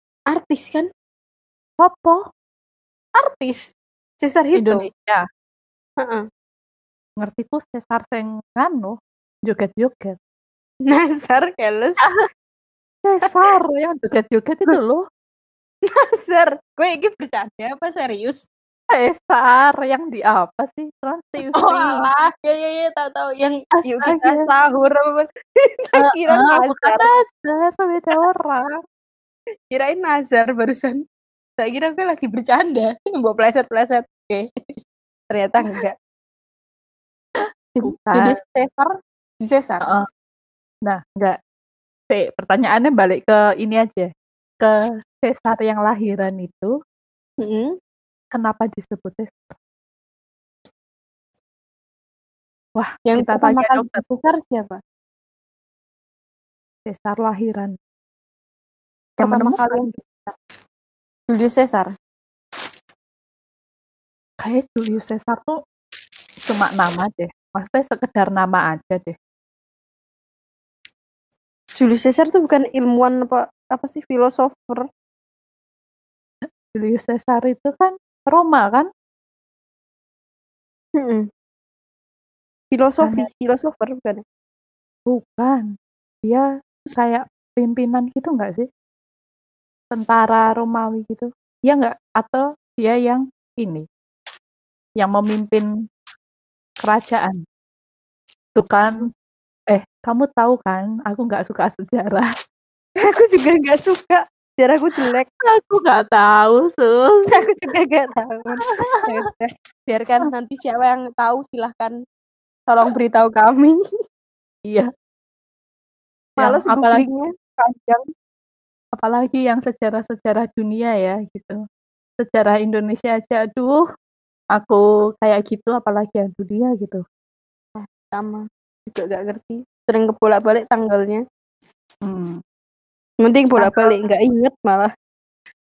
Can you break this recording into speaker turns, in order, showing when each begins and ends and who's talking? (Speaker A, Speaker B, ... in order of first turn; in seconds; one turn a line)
Speaker A: 0.3-0.9
Speaker B: 1.8-2.3
Speaker A: 3.2-4.9
Speaker B: 4.5-5.2
Speaker B: 7.2-10.2
Speaker A: 10.8-12.0
Speaker B: 13.0-15.0
Speaker A: 15.9-18.4
Speaker B: 18.9-22.1
Speaker A: 21.5-27.1
Speaker B: 23.7-24.5
Speaker B: 25.9-28.8
Speaker A: 29.7-31.0
Speaker A: 31.6-34.7
Speaker A: 35.3-35.9
Speaker A: 37.8-39.9
Speaker B: 37.8-38.4
Speaker B: 40.9-41.4
Speaker B: 42.1-44.1
Speaker B: 44.6-46.7
Speaker A: 47.4-47.7
Speaker B: 48.3-49.6
Speaker B: 52.8-54.1
Speaker A: 53.0-54.8
Speaker B: 56.9-57.7
Speaker A: 59.2-59.9
Speaker B: 59.2-60.3
Speaker A: 61.3-61.9
Speaker B: 64.4-65.5
Speaker B: 66.5-69.1
Speaker A: 71.8-74.8
Speaker B: 76.7-78.9
Speaker A: 81.0-81.3
Speaker A: 82.7-84.2
Speaker B: 83.0-83.3
Speaker B: 85.1-85.7
Speaker B: 86.2-88.7
Speaker B: 89.9-93.8
Speaker B: 95.0-95.7
Speaker B: 96.8-97.4
Speaker B: 98.5-99.0
Speaker B: 99.7-102.2
Speaker A: 103.0-105.3
Speaker B: 105.5-107.3
Speaker A: 107.3-112.0
Speaker B: 108.7-109.0
Speaker A: 112.7-113.8
Speaker B: 116.4-117.0
Speaker A: 116.4-118.0
Speaker B: 118.9-121.6
Speaker B: 122.2-123.8
Speaker B: 124.5-127.0
Speaker A: 127.8-131.2
Speaker B: 132.0-132.4
Speaker A: 133.2-134.9
Speaker B: 133.6-134.0